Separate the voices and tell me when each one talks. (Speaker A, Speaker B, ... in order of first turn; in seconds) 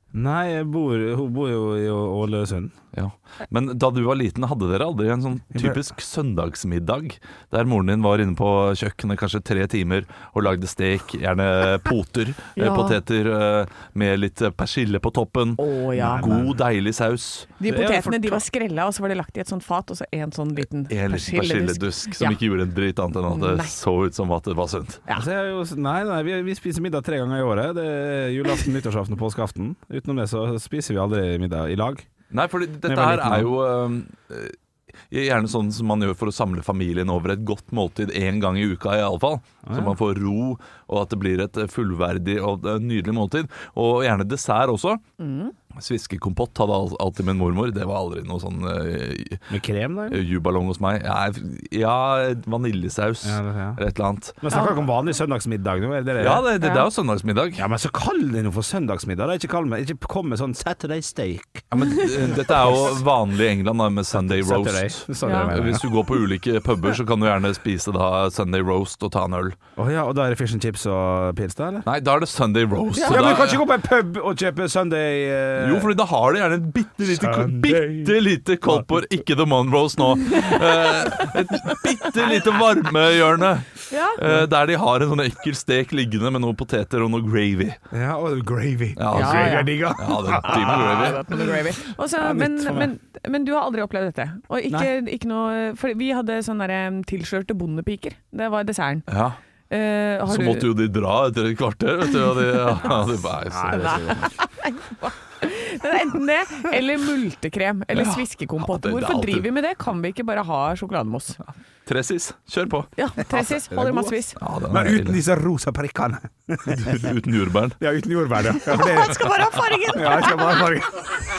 Speaker A: 0.1-2.8, 5.5-5.8, 16.0-16.5, 17.6-18.4, 25.1-32.1, 32.8-33.5, 39.6-40.0, 49.5-50.2, 53.2-53.8, 54.4-56.5, 57.6-61.7, 62.2-62.6, 64.1-65.9, 69.8-71.9, 73.1-75.9, 77.0-78.9, 87.9-91.6, 92.2-92.9, 103.5-104.3, 113.3-117.1, 117.8-119.3, 119.9-121.2
Speaker B: 2.9-17.6, 20.9-25.0, 32.3-34.6, 35.1-45.0, 45.8-49.5, 50.1-54.6, 56.2-57.6, 61.7-69.6, 71.8-73.6, 75.6-87.8, 89.0-91.4, 99.1-99.4, 100.3-104.2, 107.9-109.5, 111.9-112.9, 114.4-115.2, 116.7-117.8
Speaker C: 12.6-13.0, 15.6-16.3, 17.6-22.4, 23.3-23.7, 45.2-45.5, 54.5-54.8, 56.6-56.9, 65.2-65.5, 72.9-73.5, 80.5-80.7, 83.9-84.2, 89.1-99.1, 99.7-100.7, 103.7-111.4, 113.0-114.4, 118.7-120.7